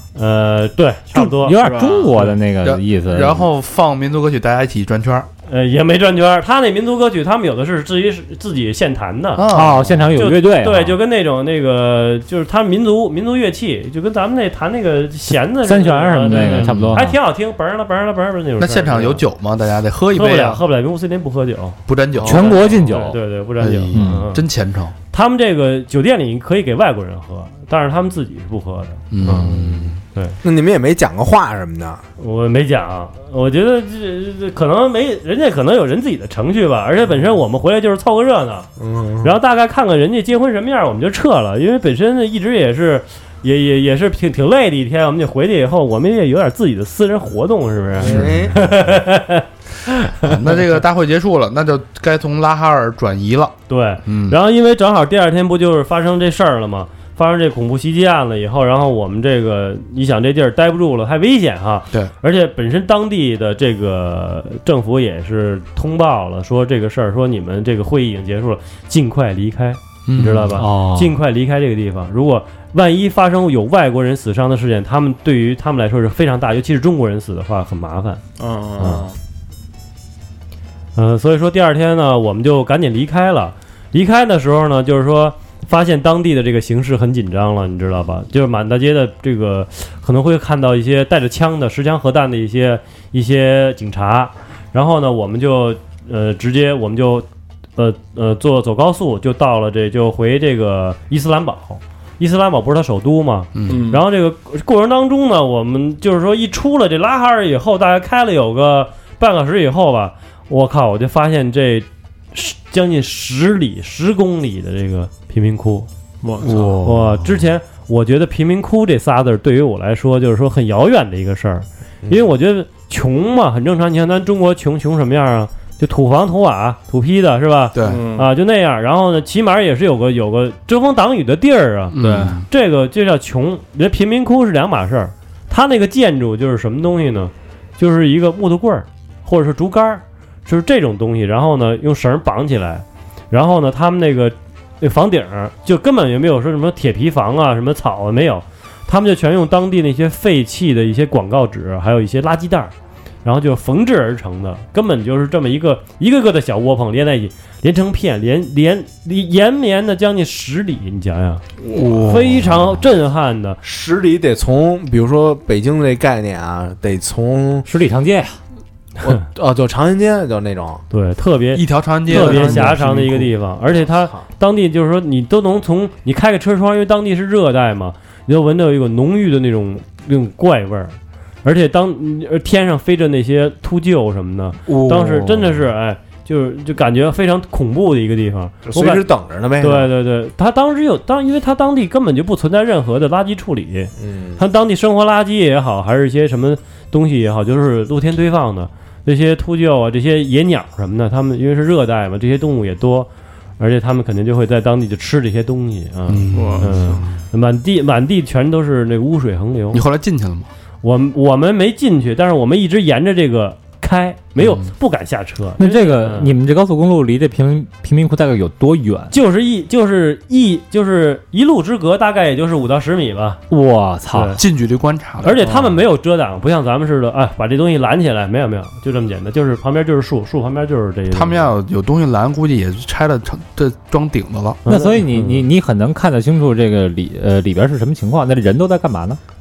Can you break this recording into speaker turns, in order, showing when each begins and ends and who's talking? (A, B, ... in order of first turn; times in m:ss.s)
0:00.2-0:01.6 A
0:01.1-0:03.5 B
0:01.6-0:02.1 C
0:02.2-0:05.3 D
0:05.5-0:09.5 A
0:09.3-0:10.2 D
0:09.5-0:11.0 B
0:10.1-0:19.2 A
0:15.6-0:17.2 B
0:16.4-0:17.0 D
0:18.6-0:20.6 D
0:20.1-0:24.4 A
0:21.9-0:22.8 D
0:22.2-0:23.2 B
0:23.6-0:24.9 D
0:23.9-0:24.3 B
0:25.1-0:29.6 A
0:29.1-0:30.0 D
0:29.3-0:32.0 E
0:32.2-0:38.7 A
0:38.8-0:39.4 E
0:39.2-0:50.4 A
0:48.0-0:48.6 E
0:48.0-0:48.8 D
0:50.2-0:54.4 D
0:53.7-1:18.2 A
1:10.0-1:10.6 D
1:10.6-1:11.1 B
1:18.4-1:19.1 C
1:18.8-1:19.1 A
1:21.0-1:55.9 A
1:43.5-1:43.8 D
1:43.7-1:44.0 C
1:56.2-1:56.9 C
1:56.4-1:57.5 D
1:56.8-2:11.9 A
2:07.7-2:08.0 D
2:07.8-2:08.3 C
2:11.9-2:12.5 D
2:12.0-2:12.4 C
2:12.5-2:32.7 A
2:33.2-2:41.4 A
2:41.7-2:42.8 D
2:41.7-2:42.0 C
2:42.0-2:43.6 A
2:43.6-2:47.7 E
2:47.6-2:48.4 B
2:49.0-2:50.8 E
2:50.9-3:09.1 A
2:51.5-2:53.3 D
2:53.7-2:54.2 E
3:04.7-3:05.6 D
3:08.7-3:09.9 E
3:09.6-3:29.8 A
3:14.0-3:14.4 E
3:26.1-3:27.0 D
3:26.3-3:27.0 C
3:29.7-3:30.5 D
3:30.8-3:36.3 A
3:34.4-3:34.7 D
3:35.6-3:39.1 B
3:39.1-3:43.4 A
3:43.5-3:44.4 B
3:44.1-3:44.4 A
3:44.4-3:45.4 D
3:45.2-3:51.5 A
3:51.1-3:54.6 D
3:54.6-3:55.4 A
3:54.6-3:59.2 B